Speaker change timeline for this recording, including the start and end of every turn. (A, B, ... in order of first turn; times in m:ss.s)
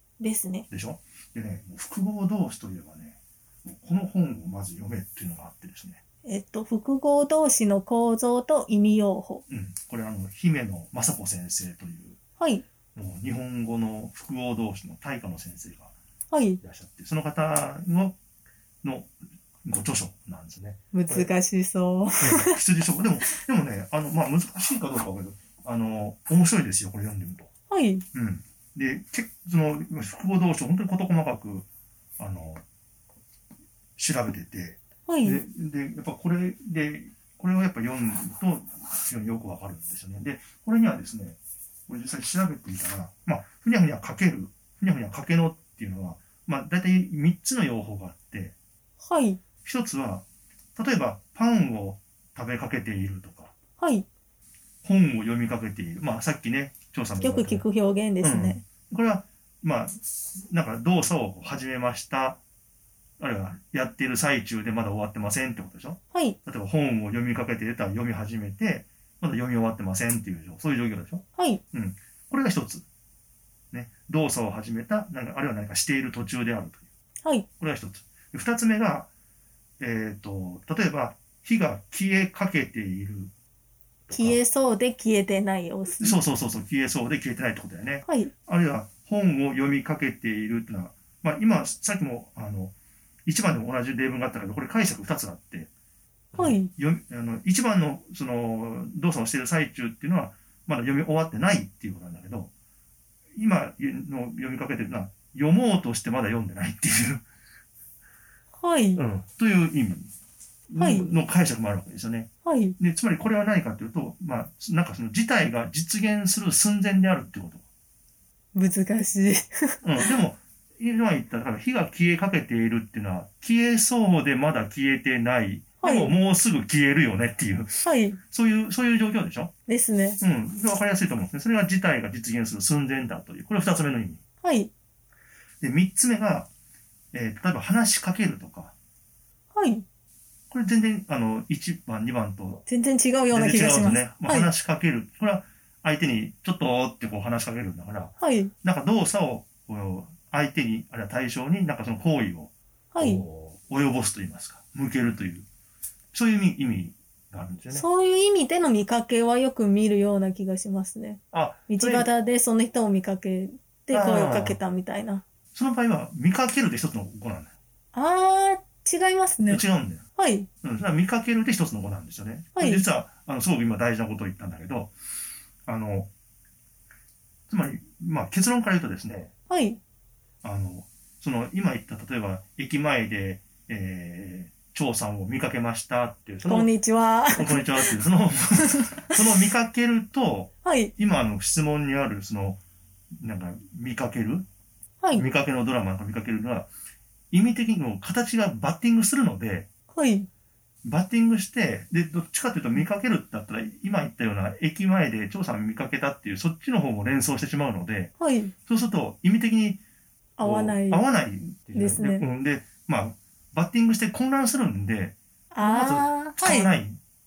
0:00.2-0:00.7 A
0:00.7-0:06.0 B
0:06.3-0:09.4 A
0:09.5-0:12.2 B
0:12.4-0:12.6 A
0:13.0-0:15.9 B
0:16.3-0:16.6 A
0:16.6-0:18.2 B
0:18.8-0:19.1 B
0:19.6-0:21.3 B
0:20.9-0:22.6 A
0:22.2-0:27.5 B
0:27.7-0:28.1 A
0:28.1-0:31.7 B
0:32.2-0:32.6 B
0:34.0-0:48.6 B
0:35.1-0:35.4 A
0:49.0-0:49.4 A
0:49.6-0:50.2 B
0:50.8-0:53.5 B
0:53.8-0:54.1 A
0:54.8-0:57.6 B
0:57.2-0:58.6 A
0:58.2-1:02.4 B
1:03.2-1:12.8 B
1:06.1-1:06.4 A
1:11.4-1:11.6 A
1:13.7-1:16.9 B
1:17.2-1:17.5 A
1:17.6-1:19.1 B
1:19.8-1:23.3 B
1:24.1-1:24.4 B
1:24.1-1:26.2 A
1:26.0-1:32.7 B
1:28.0-1:28.3 A
1:33.3-1:35.7 B
1:36.3-1:42.5 B
1:36.4-1:36.7 A
1:43.4-1:47.2 B
1:48.6-1:49.0 A
1:49.0-1:50.1 B
1:50.7-1:57.6 B
1:50.8-1:51.1 A
1:52.4-1:52.8 A
1:58.5-2:00.1 A
1:59.8-2:09.5 B
2:05.8-2:06.1 A
2:07.8-2:08.2 A
2:09.7-2:10.2 A
2:10.2-2:14.2 B
2:14.4-2:14.7 A
2:15.6-2:16.5 B
2:17.1-2:18.7 B
2:19.5-2:19.9 A
2:20.5-2:22.6 B
2:22.7-2:24.5 A
2:23.3-2:35.5 B
2:28.2-2:28.5 A
2:32.9-2:33.2 A
2:36.1-2:37.9 B
2:37.7-2:45.2 A
2:41.3-2:42.1 B
2:43.9-2:44.6 B
2:45.5-2:47.5 B
2:47.9-2:49.6 A
2:49.5-2:50.0 B
2:50.2-2:50.5 A
2:50.6-2:54.9 B
2:52.6-2:52.9 A
2:55.7-2:56.1 B
2:57.5-2:59.3 B
2:59.5-2:59.8 A
3:00.4-3:06.7 B
3:06.5-3:08.0 A
3:07.3-3:12.6 B
3:08.6-3:09.1 A
3:10.6-3:10.9 A
3:13.1-3:14.5 B
3:15.0-3:15.3 A
3:15.1-3:16.7 B
3:17.3-3:19.7 B
3:19.9-3:20.3 A
3:20.8-3:28.1 B
3:28.2-3:28.5 A
3:28.7-3:29.8 B
3:30.4-3:31.1 A
3:30.4-3:37.0 B
3:31.7-3:32.2 A
3:35.5-3:36.7 A